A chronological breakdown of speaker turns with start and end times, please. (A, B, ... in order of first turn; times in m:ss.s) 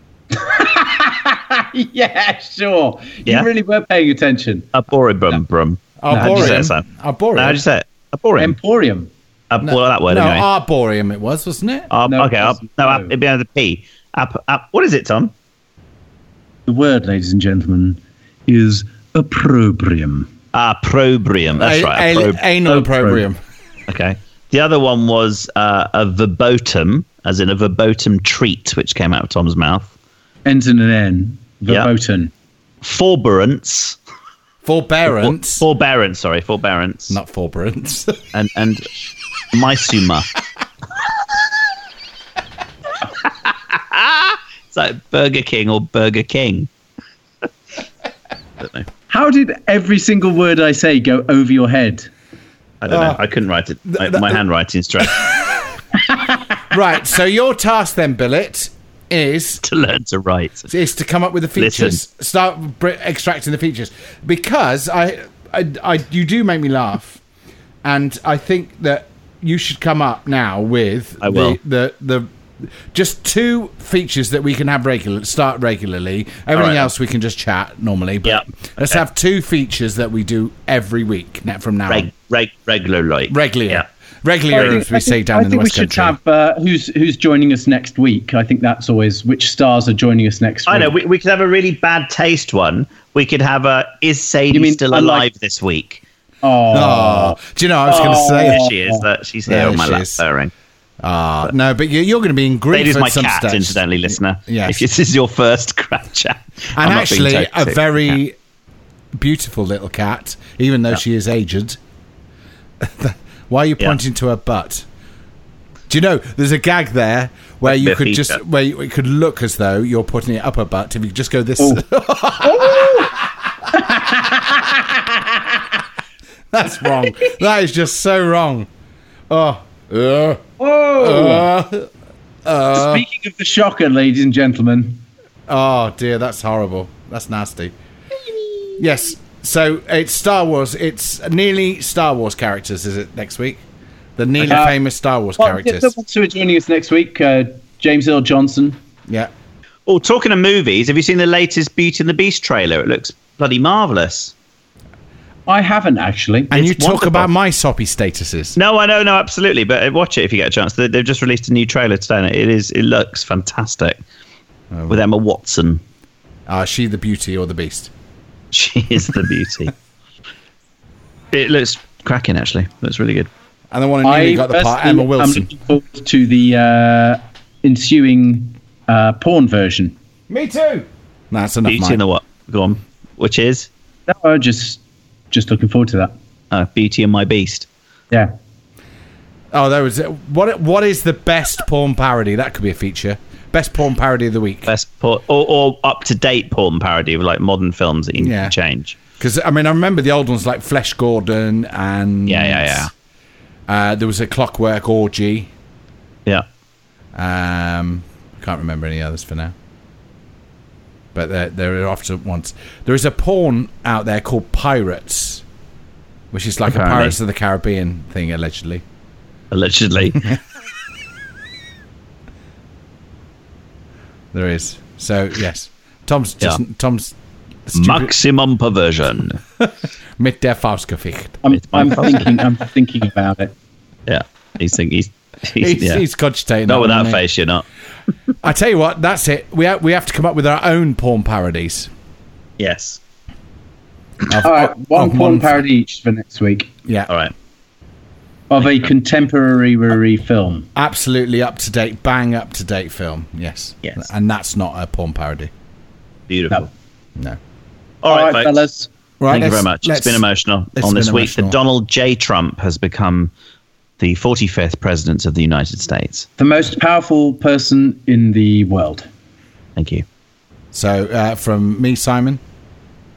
0:00.3-0:04.7 A
0:04.7-0:08.6 B
0:06.0-0:07.6 C
0:06.1-0:06.6 A
0:08.4-0:09.1 A
0:09.5-0:10.4 B
0:09.6-0:11.9 C
0:11.9-0:15.3 B
0:12.1-0:13.1 A
0:16.7-0:20.3 A
0:20.5-0:22.4 B
0:21.6-0:23.4 C
0:22.7-0:23.2 A
0:23.9-0:29.9 B
0:30.5-0:32.3 A
0:32.8-0:34.0 B
0:34.6-0:35.6 C
0:35.1-0:37.2 B
0:37.1-0:38.2 C
0:38.3-0:38.9 B
0:39.5-0:40.3 B
0:43.3-0:46.7 B
0:48.6-0:48.9 B
0:49.1-0:52.1 A
0:52.8-0:55.5 B
0:52.9-0:53.2 C
0:53.9-0:54.4 C
0:56.6-0:59.6 C
0:59.6-1:00.7 B
1:00.7-1:07.2 C
1:01.6-1:02.0 B
1:07.8-1:22.1 C
1:11.2-1:11.6 B
1:16.5-1:16.9 B
1:18.2-1:19.0 B
1:21.9-1:23.8 B
1:23.3-1:26.2 C
1:24.5-1:31.0 A
1:24.6-1:24.8 B
1:30.7-1:36.0 B
1:34.5-1:35.3 A
1:36.4-1:39.0 A
1:36.7-1:38.7 C
1:38.0-1:40.5 B
1:39.5-1:40.2 C
1:41.0-1:44.8 C
1:42.7-1:48.2 B
1:46.8-1:48.4 C
1:49.2-1:51.8 C
1:52.8-1:54.9 C
1:55.9-2:03.1 C
1:57.7-1:58.4 B
2:01.6-2:01.8 A
2:02.4-2:03.1 A
2:03.7-2:05.6 A
2:06.5-2:08.7 C
2:09.3-2:11.9 C
2:10.6-2:11.5 A
2:12.4-2:13.0 C
2:12.7-2:15.0 A
2:15.5-2:17.7 C
2:18.8-2:23.6 C
2:24.2-2:25.9 C
2:24.5-2:24.8 A
2:25.4-2:28.8 A
2:29.9-2:34.3 B
2:35.5-2:36.6 A
2:36.5-2:38.6 C
2:36.5-2:37.3 B
2:38.6-2:44.0 B
2:44.7-2:45.0 C
2:44.9-2:45.8 B
2:46.5-2:47.9 C
2:48.5-2:49.7 B
2:51.3-2:53.3 B
2:53.7-2:55.5 C
2:54.0-3:00.0 A
3:00.3-3:02.0 C
3:01.7-3:03.7 B
3:04.1-3:06.1 A
3:06.5-3:07.7 B
3:09.5-3:14.7 C
3:14.7-3:19.0 B
3:18.2-3:18.6 C
3:19.2-3:22.9 C
3:22.3-3:22.9 B
3:23.7-3:25.5 C
3:27.2-3:29.6 C
3:31.1-3:35.4 C
3:36.3-3:38.8 C
3:36.7-3:37.2 B
3:39.5-3:40.3 B
3:44.3-3:47.2 C
3:47.7-3:48.1 C
3:47.7-3:49.4 B
3:49.6-3:51.4 C
3:51.4-3:53.6 A
3:51.5-3:52.4 B
3:54.1-3:56.0 B
3:55.6-3:57.2 C
3:56.7-3:57.6 B
3:58.4-4:01.9 C
4:02.6-4:03.0 B
4:04.3-4:05.6 C
4:04.4-4:06.7 A
4:06.9-4:07.1 C
4:08.5-4:10.7 A
4:08.6-4:08.9 B
4:10.8-4:15.5 C
4:16.3-4:16.7 B
4:18.0-4:18.6 B
4:18.0-4:18.9 A
4:19.2-4:20.2 C
4:19.3-4:23.3 B
4:20.8-4:21.6 C
4:24.0-4:26.3 B
4:26.4-4:29.1 A
4:29.8-4:30.0 B
4:30.7-4:32.4 C